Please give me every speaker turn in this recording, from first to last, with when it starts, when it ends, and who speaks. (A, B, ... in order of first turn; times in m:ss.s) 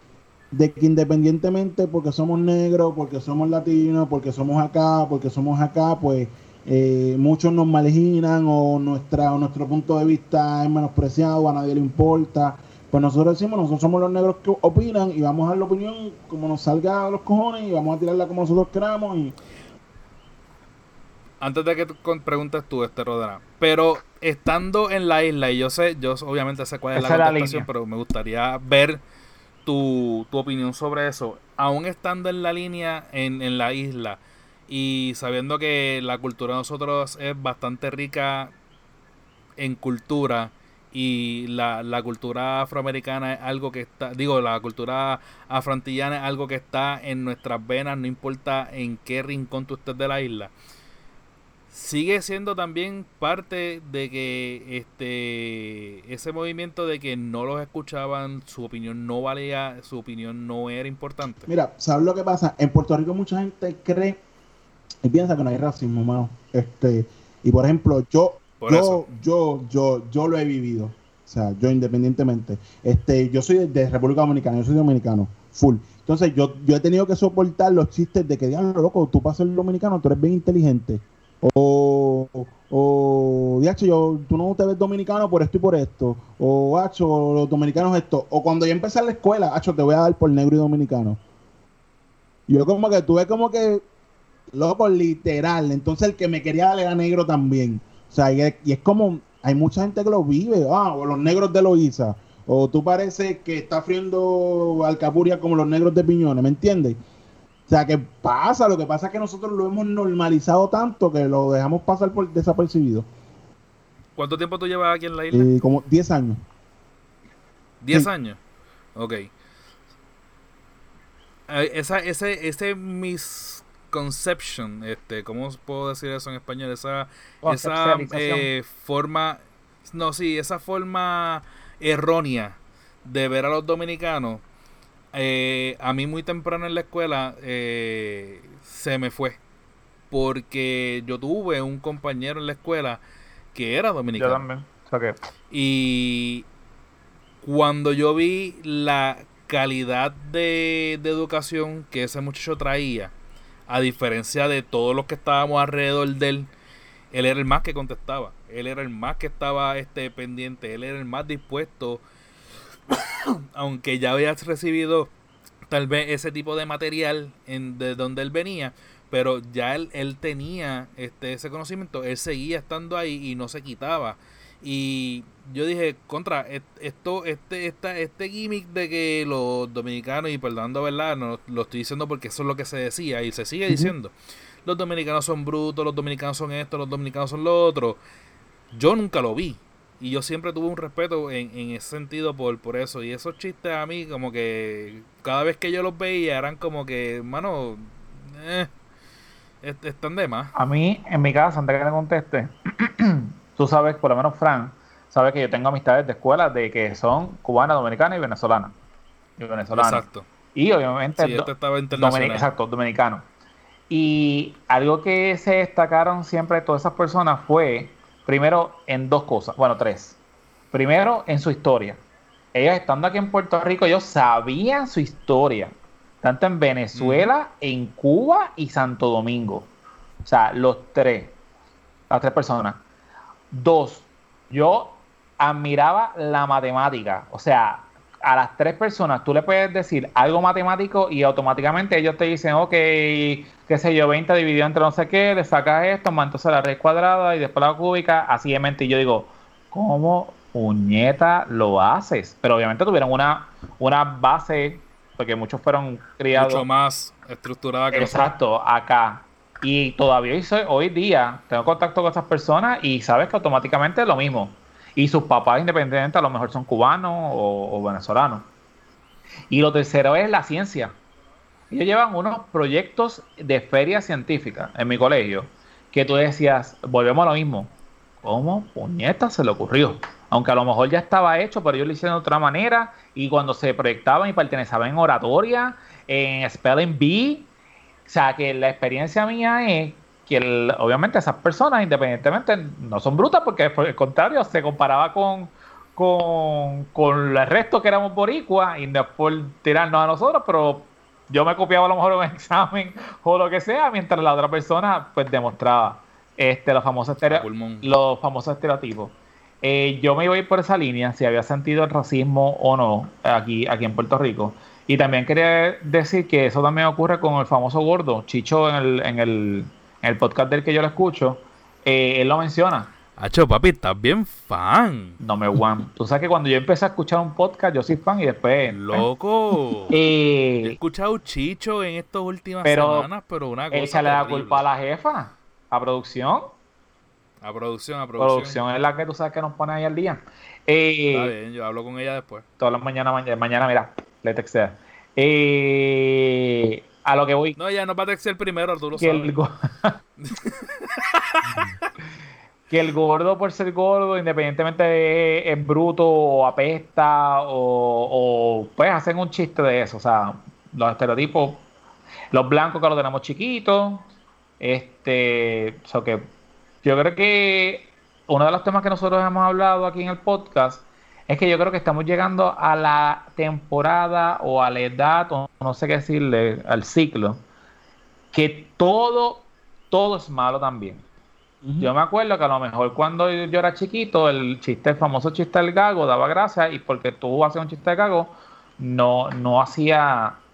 0:00.5-0:19.4 A
0:21.4-0:29.0 B
0:26.9-0:27.7 C
0:29.6-0:38.5 B
0:39.6-0:50.5 B
0:51.7-1:01.5 B
1:01.5-1:04.2 A
1:05.0-1:31.2 A
1:08.6-1:09.0 B
1:32.5-1:33.8 A
1:34.5-1:47.0 A
1:47.7-1:53.1 A
1:54.2-1:55.5 B
1:55.3-1:56.4 A
1:57.8-1:58.4 B
1:59.0-1:59.3 B
2:01.5-2:14.4 B
2:07.4-2:08.5 C
2:15.1-2:19.4 B
2:20.1-2:23.0 B
2:23.5-2:24.4 B
2:24.2-2:25.2 C
2:25.5-2:26.4 B
2:27.4-2:33.1 B
2:33.7-2:36.5 B
2:37.1-2:42.0 B
2:42.9-2:45.1 B
2:45.7-3:04.1 B
3:03.7-3:03.9 A
3:04.6-3:08.0 B
3:08.7-3:18.7 B
3:19.6-3:20.5 B
3:20.5-3:28.8 C
3:29.4-3:33.3 C
3:29.8-3:30.3 B
3:31.2-3:32.5 B
3:33.9-3:40.2 C
3:40.7-3:42.0 C
3:42.5-3:49.7 C
3:46.9-3:47.3 B
3:50.2-3:51.4 C
3:52.1-3:52.8 C
3:53.5-4:16.6 C
4:16.3-4:18.3 B
4:17.9-4:28.5 C
4:29.5-4:31.0 C
4:31.7-4:47.5 C
4:48.0-5:22.9 C
5:07.2-5:07.9 B
5:23.2-5:25.2 B
5:25.2-5:29.0 C
5:28.7-5:29.9 B
5:29.9-5:30.8 C
5:30.6-5:34.6 B
5:32.6-5:33.1 C
5:33.7-5:36.6 C
5:37.4-5:38.6 B
5:38.2-5:41.3 C
5:41.1-5:42.4 B
5:42.6-5:47.6 C
5:47.6-5:49.4 B
5:49.0-5:50.0 C
5:50.2-5:51.8 B
5:52.7-6:01.6 C
6:02.3-6:04.1 C
6:04.6-6:06.3 C
6:06.8-6:17.4 C
6:18.3-6:21.0 C
6:21.6-6:21.9 A
6:21.8-6:30.4 C